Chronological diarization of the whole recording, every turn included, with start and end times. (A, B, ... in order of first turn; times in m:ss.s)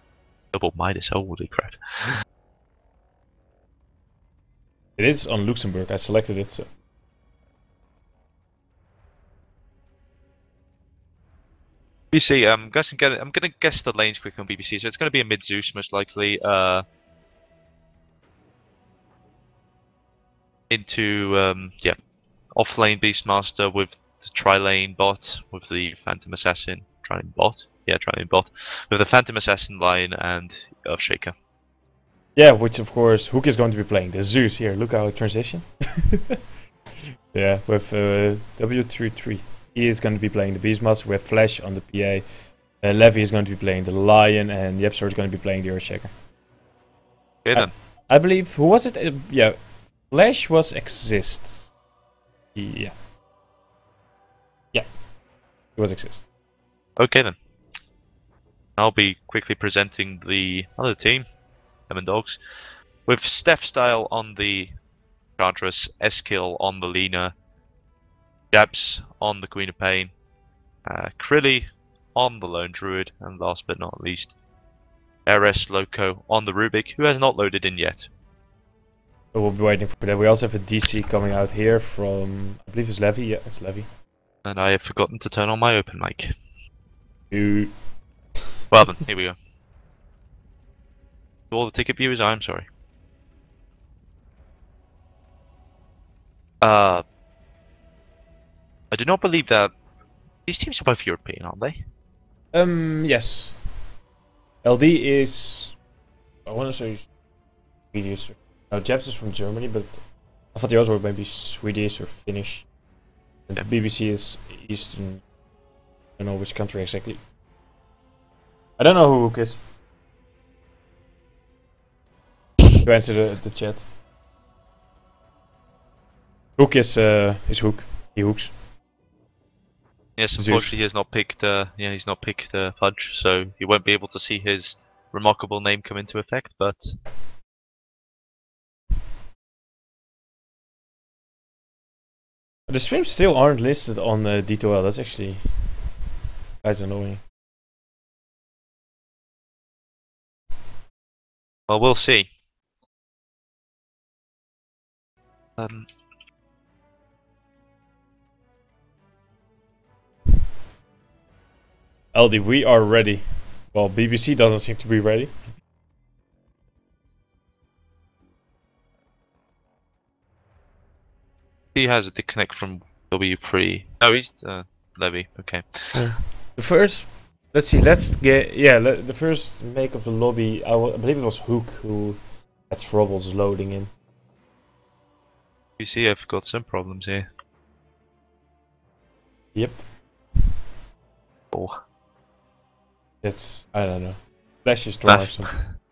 0:00.5-0:02.2 A
0:05.0-0:06.7 B
0:12.1-0:16.8 A
0:20.7-0:22.0 A
0:22.5-0:31.4 A
0:32.4-0:36.4 B
0:37.3-0:42.3 B
0:42.8-0:46.1 B
0:47.4-0:47.7 A
0:47.5-0:49.6 B
0:50.1-0:51.6 B
0:52.6-0:52.9 B
0:55.8-0:56.2 B
0:57.0-0:57.4 A
0:58.8-1:01.3 A
1:01.9-1:02.4 A
1:03.1-1:04.7 A
1:05.4-1:07.3 A
1:08.5-1:10.1 A
1:10.8-1:14.4 A
1:15.3-1:18.1 A
1:19.3-1:23.9 B
1:24.4-1:26.4 A
1:27.3-1:27.8 B
1:28.7-1:29.4 A
1:31.5-1:32.7 A
1:36.6-1:37.0 A
1:38.9-1:39.7 A
1:40.5-1:41.8 A
1:42.5-1:43.6 B
1:44.6-1:45.8 B
1:46.5-1:47.1 B
1:47.9-1:50.0 B
1:50.5-1:52.7 B
1:53.5-1:55.2 B
1:56.2-1:57.2 B
1:58.8-1:59.6 B
2:02.8-2:03.9 B
2:06.6-2:08.5 B
2:10.2-2:17.0 A
2:10.4-2:10.7 B
2:22.7-2:25.6 B
2:26.6-2:27.2 B
2:31.7-2:32.3 A
2:35.6-2:35.9 A
2:42.1-2:45.4 B
2:51.8-2:56.1 A
2:55.9-3:03.9 B
3:05.8-3:07.3 A
3:09.6-3:09.8 B
3:11.5-3:11.8 A
3:13.2-3:15.6 B
3:15.0-3:15.7 A